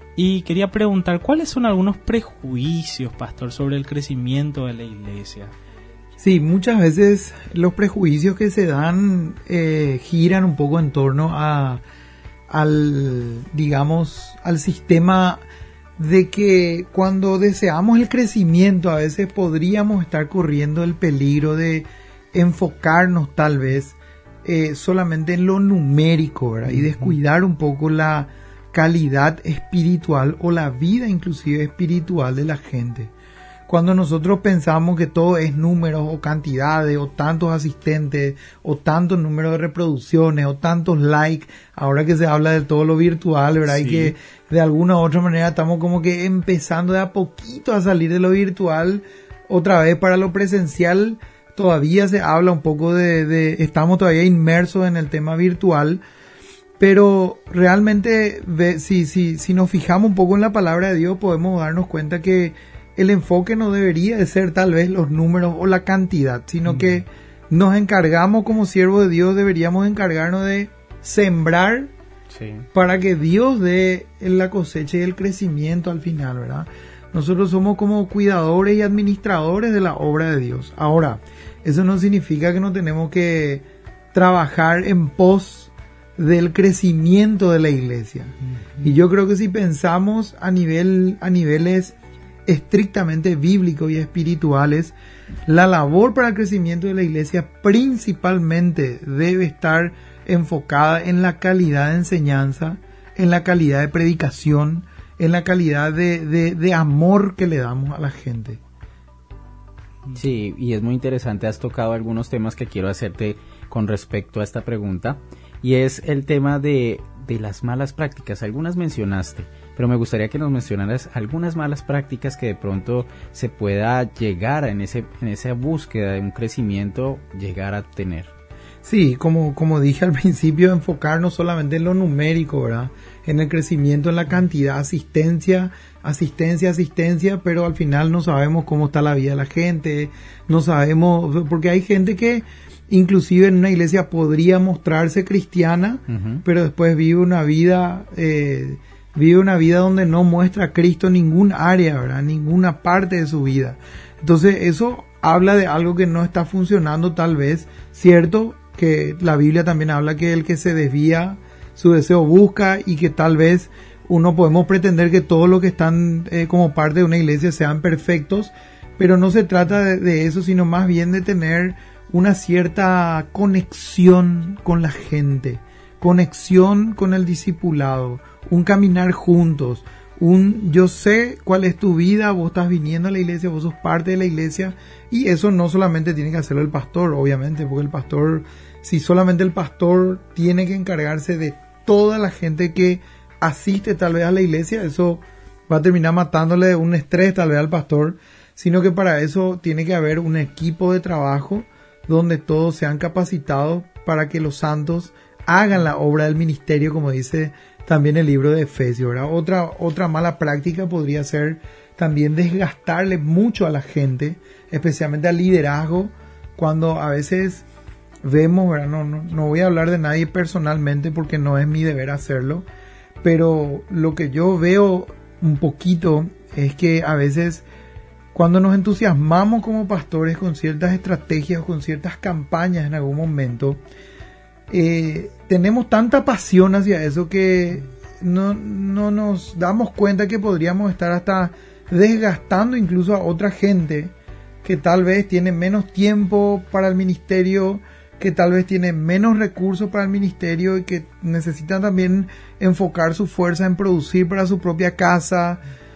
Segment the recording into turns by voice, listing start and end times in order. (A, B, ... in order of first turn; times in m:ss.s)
0:00.2-0:05.5 A
0:06.2-0:11.8 B
0:12.5-0:15.4 B
0:16.0-0:33.1 B
0:33.7-0:56.0 B
0:43.7-0:44.1 A
0:56.8-1:11.9 B
1:12.3-1:12.6 C
1:12.7-1:31.9 B
1:32.4-1:34.9 B
1:35.5-1:48.6 B
1:50.1-2:08.3 C
2:08.8-3:37.6 B
2:26.1-2:26.4 C
3:38.2-3:42.6 B
3:43.2-3:47.6 B
3:48.3-3:53.8 B
3:54.7-4:04.1 B
4:04.6-4:15.6 B